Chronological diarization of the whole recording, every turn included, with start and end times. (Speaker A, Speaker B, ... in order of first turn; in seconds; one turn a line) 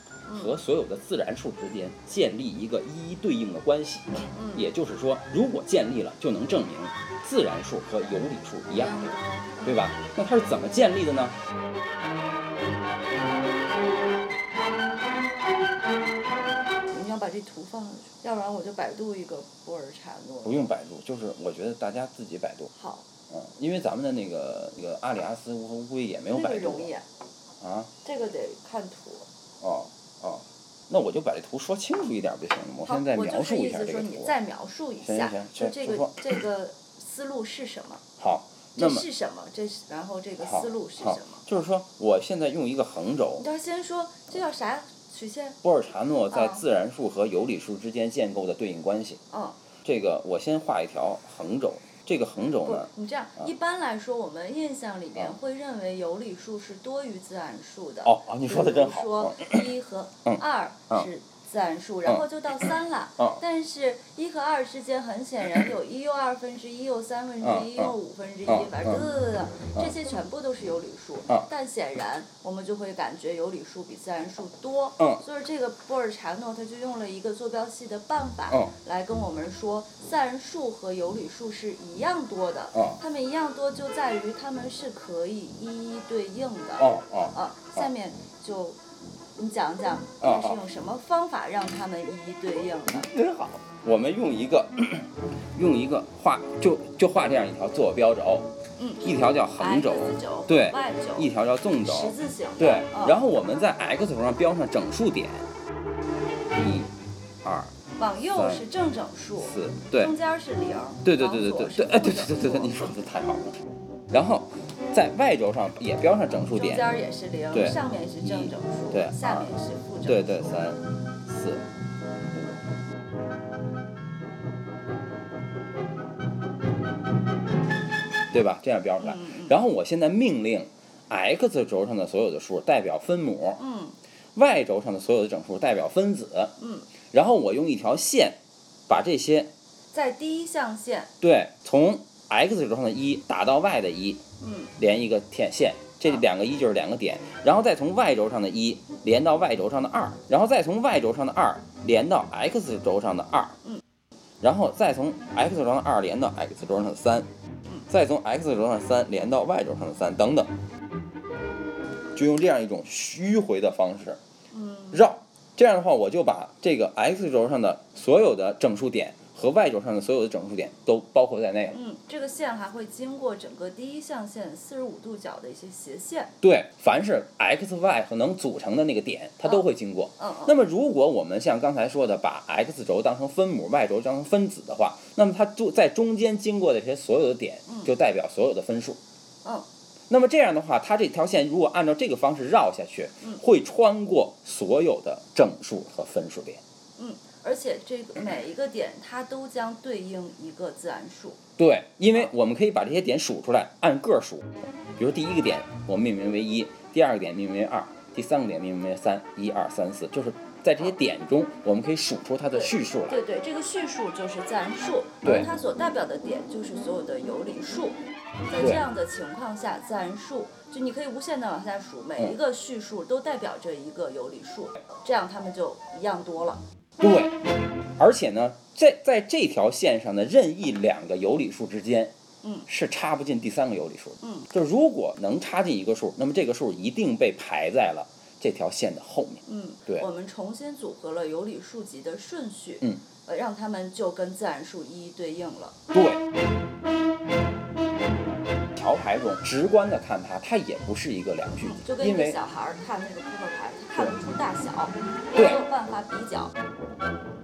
Speaker A: 0.2-0.5
Speaker B: 0.3-11.4
Speaker A: 4.2-4.7
Speaker A: 8.7-9.7
Speaker A: 16.9-20.6
Speaker B: 20.4-22.7
Speaker A: 22.7-23.1
Speaker B: 23.3-26.9
Speaker A: 26.3-27.1
Speaker B: 27.6-27.9
Speaker A: 28.0-29.3
Speaker B: 29.6-34.3
Speaker A: 32.8-38.0
Speaker B: 35.0-36.4
Speaker B: 38.2-39.0
Speaker A: 38.8-41.4
Speaker B: 40.4-43.5
Speaker A: 43.4-45.6
Speaker B: 45.6-49.2
Speaker A: 46.3-46.6
Speaker A: 49.3-49.6
Speaker B: 49.8-53.5
Speaker A: 52.6-88.8
Speaker B: 58.0-59.6
Speaker B: 60.2-61.1
Speaker B: 62.0-62.6
Speaker B: 67.4-67.9
Speaker B: 68.5-69.1
Speaker B: 75.0-75.2
Speaker B: 78.5-78.7
Speaker B: 82.7-83.0
Speaker B: 86.8-87.9
Speaker A: 89.3-93.1
Speaker B: 90.2-90.6
Speaker B: 92.9-98.5
Speaker A: 98.8-103.2
Speaker B: 99.0-105.5
Speaker B: 106.5-106.9
Speaker B: 107.4-107.7
Speaker A: 108.0-112.8
Speaker B: 108.3-108.6
Speaker B: 109.4-110.1
Speaker B: 111.0-116.9
Speaker A: 116.5-120.7
Speaker B: 117.5-119.5
Speaker B: 120.0-121.6
Speaker B: 128.3-133.6
Speaker A: 129.0-129.6
Speaker A: 133.6-134.0
Speaker B: 134.3-136.5
Speaker A: 136.6-136.9
Speaker B: 137.1-138.4
Speaker B: 138.9-139.5
Speaker A: 139.9-141.1
Speaker B: 141.2-144.2
Speaker A: 144.4-144.8
Speaker B: 144.8-153.6
Speaker B: 154.4-157.3
Speaker B: 157.9-160.5
Speaker B: 162.1-164.2
Speaker A: 164.5-165.1
Speaker B: 164.9-171.8
Speaker A: 171.7-176.3
Speaker B: 176.4-189.0
Speaker A: 180.2-180.5
Speaker A: 187.7-187.9
Speaker B: 190.1-196.6
Speaker A: 197.0-201.4
Speaker B: 201.6-213.2
Speaker A: 212.5-226.6
Speaker B: 215.2-215.5
Speaker B: 218.6-218.8
Speaker B: 227.0-227.3
Speaker B: 228.0-232.1
Speaker A: 232.4-232.7
Speaker B: 232.7-240.1
Speaker A: 234.2-234.5
Speaker A: 239.4-245.8
Speaker B: 245.9-246.2
Speaker B: 248.8-252.4
Speaker A: 251.6-256.5
Speaker B: 255.3-255.6